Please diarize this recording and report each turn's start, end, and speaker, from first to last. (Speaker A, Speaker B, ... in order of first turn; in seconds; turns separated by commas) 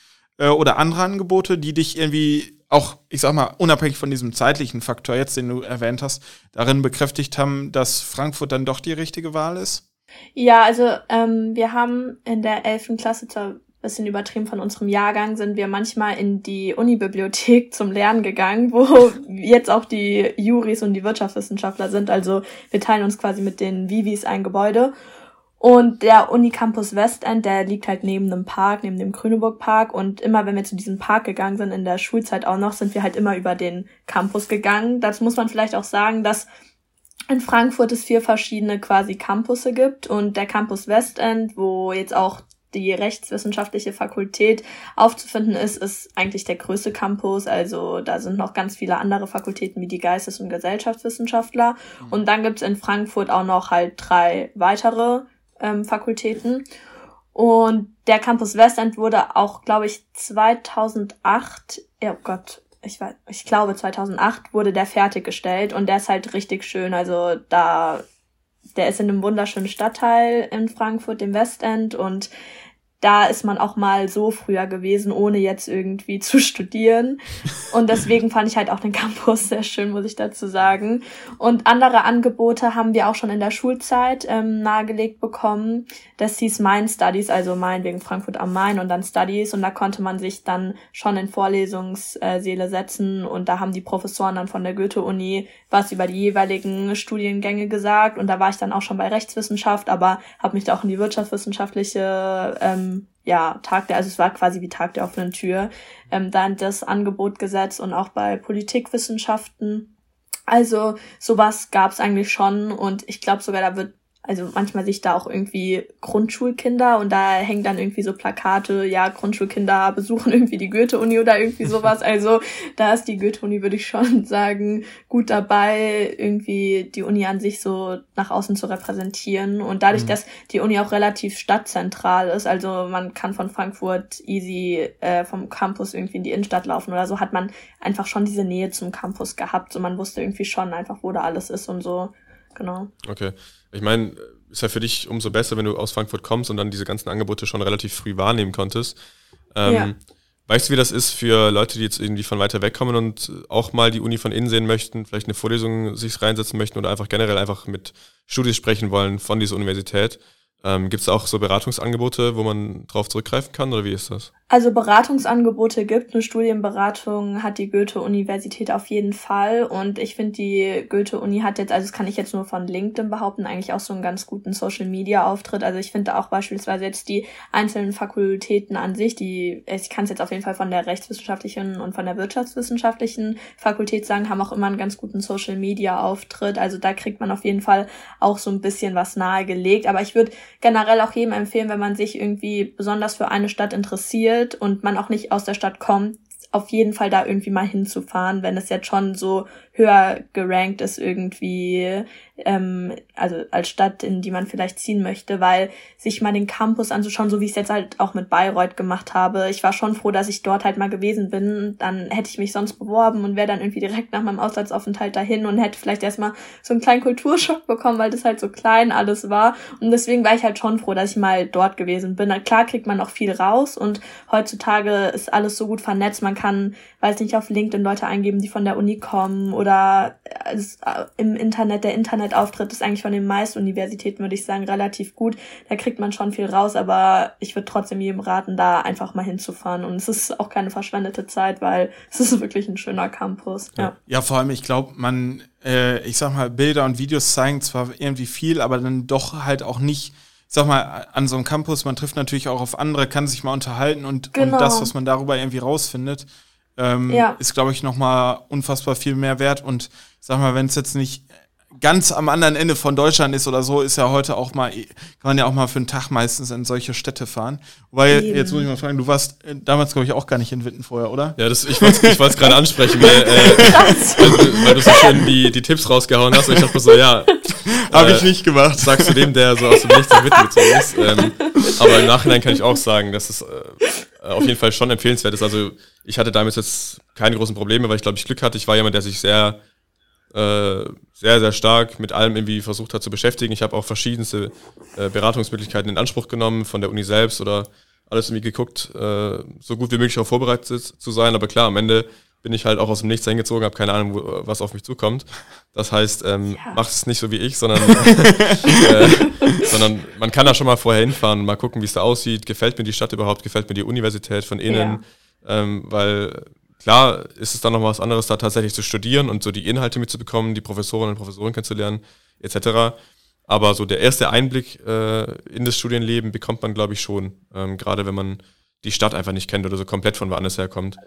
Speaker A: 0.4-9.8, Speaker B: 10.4-24.9, Speaker B: 25.6-36.5, Speaker B: 37.3-56.6, Speaker B: 57.3-68.0, Speaker B: 68.8-72.3, Speaker B: 73.0-109.9, Speaker B: 110.5-142.9, Speaker C: 143.0-149.0, Speaker C: 149.5-164.3, Speaker B: 149.7-149.9, Speaker B: 164.5-243.9, Speaker A: 244.1-256.3, Speaker B: 254.3-254.9, Speaker A: 256.8-272.3, Speaker B: 257.1-257.4, Speaker B: 268.1-268.7, Speaker C: 271.4-289.6, Speaker A: 273.0-274.3, Speaker B: 273.5-275.1, Speaker A: 277.9-279.2, Speaker B: 280.3-282.0, Speaker C: 290.3-323.0, Speaker B: 306.5-306.8, Speaker B: 314.7-315.0, Speaker C: 323.5-331.0